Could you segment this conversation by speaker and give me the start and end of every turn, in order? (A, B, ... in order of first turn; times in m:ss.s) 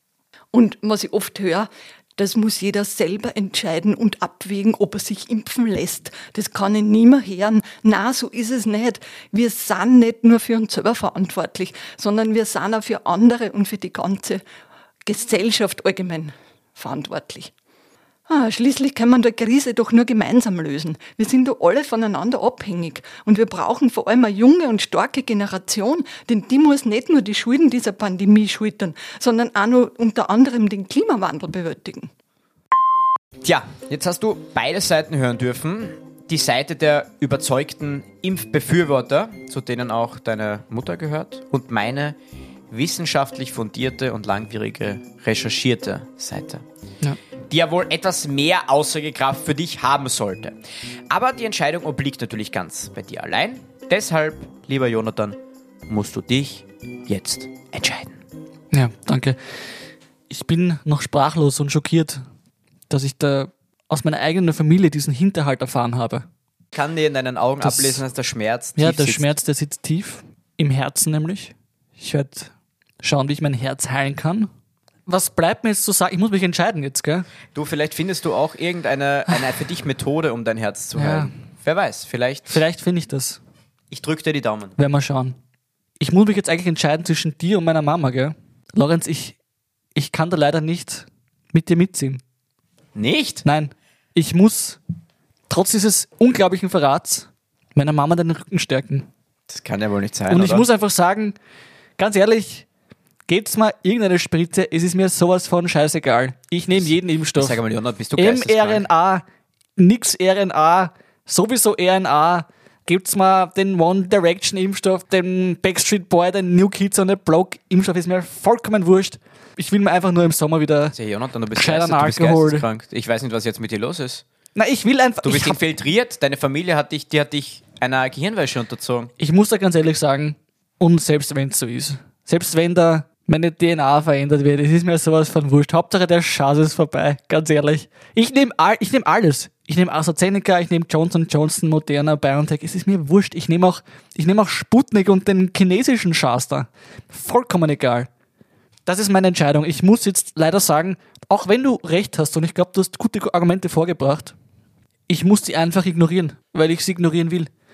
0:00.5-0:14.4 A
0:15.0-0:17.5 A
0:18.3-0:32.1 A
0:33.4-0:42.2 B
0:42.7-0:46.6 B
0:47.5-0:50.6 B
0:51.1-0:58.2 B
0:58.7-0:59.4 C
1:00.3-1:02.2 C
1:02.9-1:06.2 C
1:06.7-1:09.3 B
1:07.6-1:08.0 C
1:08.8-1:14.5 C
1:15.1-1:17.3 C
1:17.5-1:22.6 B
1:20.9-1:21.3 C
1:22.5-1:23.4 C
1:23.9-1:24.8 B
1:24.8-1:25.4 C
1:26.0-1:29.4 C
1:29.9-1:32.2 C
1:32.9-1:33.4 B
1:33.4-1:34.8 C
1:35.5-1:39.1 C
1:39.5-1:40.7 B
1:40.3-1:41.4 C
1:42.0-1:42.6 C
1:43.3-1:47.6 C
1:47.4-1:48.9 B
1:48.2-1:49.2 C
1:49.8-2:01.0 C
2:00.9-2:04.2 B
2:01.5-2:02.6 C
2:04.6-2:05.6 C
2:05.2-2:09.1 B
2:09.2-2:28.1 C
2:28.8-2:34.3 C
2:35.1-2:37.5 C